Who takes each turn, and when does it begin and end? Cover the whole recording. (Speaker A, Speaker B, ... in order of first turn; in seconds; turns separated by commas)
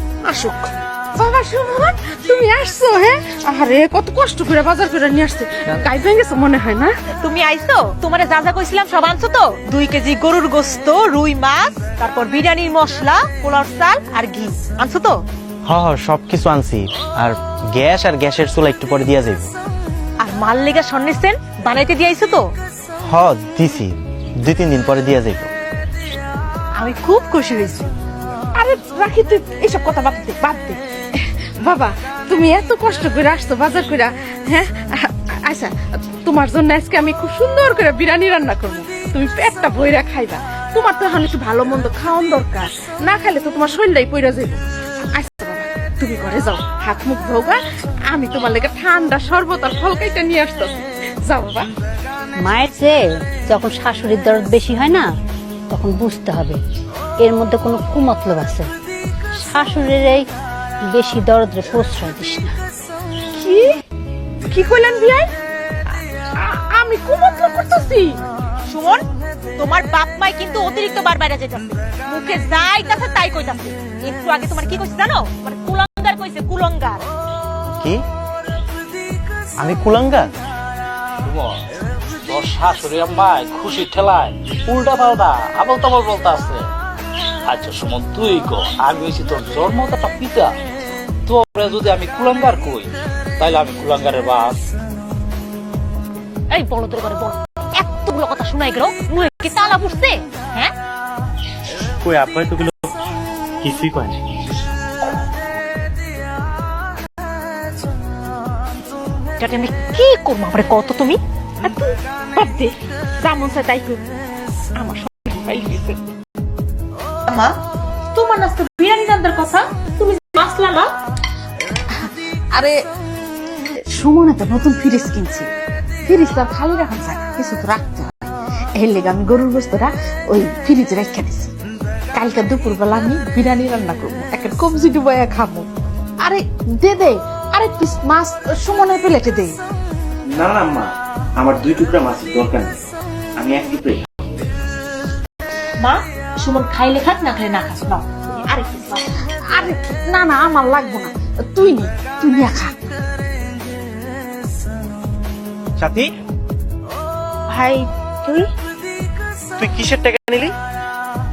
Speaker A: 0.2-6.9, Speaker B: 7.2-15.2, Speaker C: 15.7-19.5, Speaker B: 20.2-22.4, Speaker C: 23.1-25.5, Speaker B: 26.8-27.9, Speaker A: 28.6-30.8, Speaker A: 31.6-44.6, Speaker A: 45.1-47.6, Speaker A: 48.1-51.7, Speaker D: 52.4-55.1, Speaker D: 55.7-56.6, Speaker D: 57.2-58.7, Speaker D: 59.4-60.2, Speaker D: 60.8-62.5, Speaker A: 63.3-63.7, Speaker A: 64.5-65.3, Speaker A: 66.4-68.2, Speaker B: 68.7-69.0, Speaker B: 69.6-77.1, Speaker C: 79.6-80.3, Speaker E: 81.2-81.6, Speaker E: 82.3-86.7, Speaker E: 87.5-90.5, Speaker E: 91.3-94.5, Speaker B: 96.5-100.7, Speaker C: 102.0-102.9, Speaker C: 103.6-104.2, Speaker B: 109.4-111.2, Speaker A: 111.6-114.0, Speaker A: 114.8-116.0, Speaker B: 117.3-117.5, Speaker B: 118.1-120.9, Speaker A: 123.9-125.5, Speaker A: 126.0-131.5, Speaker A: 132.1-135.7, Speaker A: 136.2-139.6, Speaker C: 140.3-142.8, Speaker C: 143.4-144.1, Speaker B: 145.8-149.1, Speaker A: 149.5-152.7, Speaker C: 155.8-156.1, Speaker A: 157.5-158.4, Speaker C: 159.6-160.5